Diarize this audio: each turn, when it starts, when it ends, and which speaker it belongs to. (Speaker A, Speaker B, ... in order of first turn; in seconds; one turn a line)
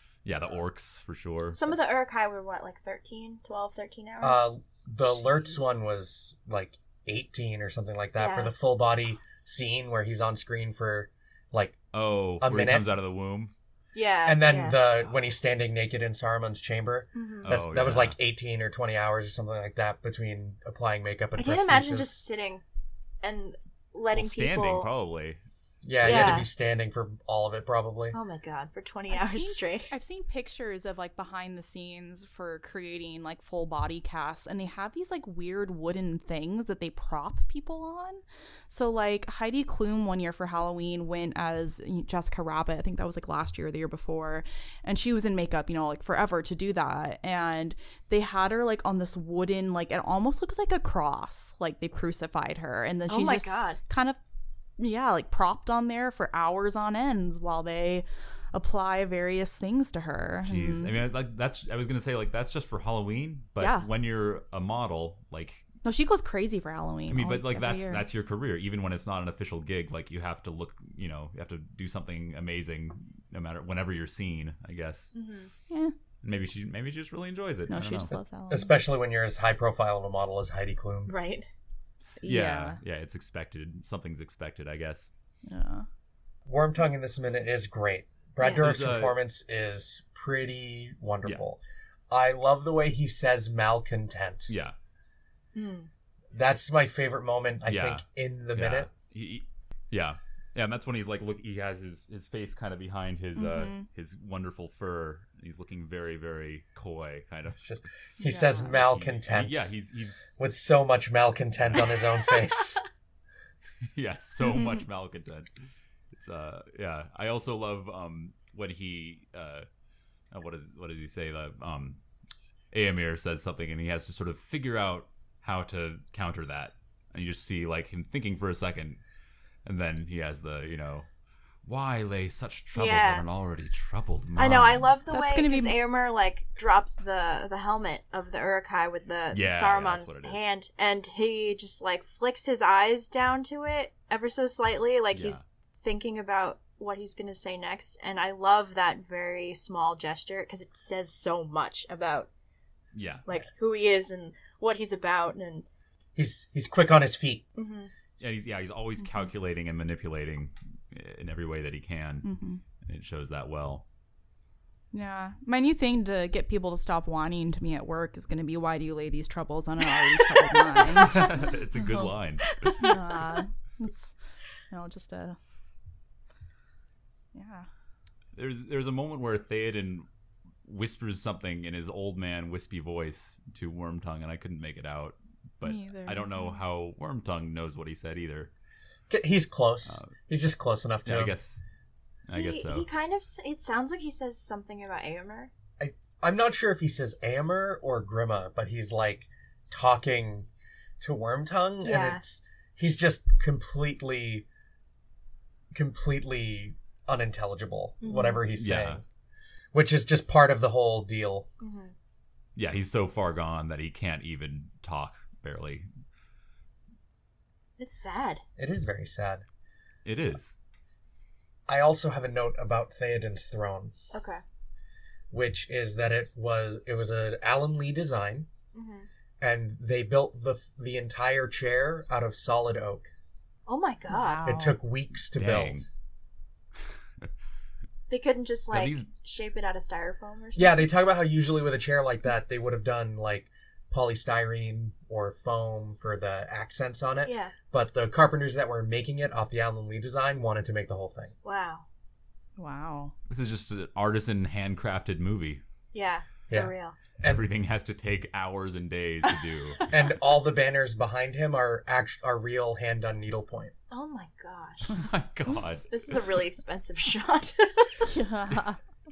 Speaker A: 0.2-1.8
Speaker B: 1.5-4.5
Speaker C: 4.2-11.8
Speaker A: 5.0-5.5
Speaker B: 8.2-8.5
Speaker A: 11.9-13.5
Speaker C: 12.4-12.9
Speaker B: 13.9-14.8
Speaker C: 14.2-22.1
Speaker B: 17.1-17.5
Speaker A: 17.4-18.2
Speaker B: 21.4-22.6
Speaker B: 23.2-24.9
Speaker A: 24.1-25.4
Speaker C: 25.8-28.2
Speaker B: 26.0-26.5
Speaker A: 26.0-26.4
Speaker B: 28.1-29.9
Speaker D: 29.1-54.2
Speaker B: 53.1-53.8
Speaker D: 54.8-61.0
Speaker A: 60.5-65.6
Speaker D: 63.6-63.9
Speaker D: 65.8-68.1
Speaker A: 67.1-75.1
Speaker B: 75.1-75.5
Speaker D: 75.7-75.9
Speaker A: 76.2-78.1
Speaker D: 77.7-78.7
Speaker C: 78.1-81.1
Speaker B: 81.1-81.5
Speaker D: 82.2-82.8
Speaker A: 82.2-85.1
Speaker D: 85.5-85.9
Speaker C: 86.5-94.5
Speaker B: 88.4-88.7
Speaker A: 88.6-89.2
Speaker A: 94.5-94.8
Speaker B: 95.5-95.9
Speaker C: 96.3-98.9
Speaker A: 97.7-107.7
Speaker D: 103.4-103.9
Speaker C: 107.5-109.7
Speaker D: 108.2-108.8
Speaker A: 108.7-110.3
Speaker C: 110.4-112.8
Speaker A: 111.6-112.0
Speaker A: 113.9-115.5
Speaker D: 114.4-114.7
Speaker A: 116.1-119.7
Speaker A: 120.3-122.0
Speaker A: 122.7-129.0
Speaker A: 129.6-131.1
Speaker A: 131.6-134.9
Speaker B: 132.8-133.3
Speaker B: 134.4-152.3
Speaker D: 135.1-135.8
Speaker A: 139.3-140.5
Speaker A: 145.1-145.5
Speaker A: 152.9-153.3
Speaker B: 153.2-155.7
Speaker C: 156.2-157.4
Speaker B: 157.6-157.9
Speaker A: 158.2-162.3
Speaker D: 162.2-162.6
Speaker A: 162.8-163.8
Speaker D: 164.9-172.1
Speaker B: 170.2-171.0
Speaker A: 171.0-172.6
Speaker B: 172.5-173.0
Speaker D: 172.8-174.2
Speaker D: 174.7-175.4
Speaker D: 177.3-177.7
Speaker A: 178.3-180.1
Speaker A: 180.6-188.5
Speaker D: 185.6-186.6
Speaker C: 189.1-191.3
Speaker A: 189.9-190.1
Speaker A: 191.1-191.6
Speaker A: 192.3-192.9
Speaker B: 192.3-195.5
Speaker C: 195.8-200.5
Speaker C: 201.0-204.5
Speaker B: 201.8-202.2
Speaker C: 205.7-209.0
Speaker B: 208.0-208.4
Speaker A: 208.5-209.0
Speaker C: 209.7-211.5
Speaker B: 211.6-211.9
Speaker A: 212.6-215.9
Speaker B: 217.8-218.4
Speaker C: 218.6-219.4
Speaker A: 220.1-220.6
Speaker C: 221.7-223.9
Speaker B: 224.1-224.4
Speaker C: 225.3-228.5
Speaker B: 228.7-229.1
Speaker C: 229.4-233.1
Speaker B: 233.7-234.5
Speaker D: 234.1-234.8
Speaker C: 234.5-235.8
Speaker A: 235.3-235.9
Speaker B: 238.1-240.8
Speaker A: 238.7-239.1
Speaker C: 240.6-251.3
Speaker B: 247.2-247.6
Speaker B: 251.4-251.8
Speaker D: 252.6-253.1
Speaker A: 253.3-255.6
Speaker B: 255.9-257.0
Speaker C: 256.5-257.4
Speaker A: 257.2-259.9
Speaker C: 259.9-263.7
Speaker B: 263.9-264.9
Speaker A: 264.9-266.0
Speaker B: 265.9-268.1
Speaker D: 268.0-268.8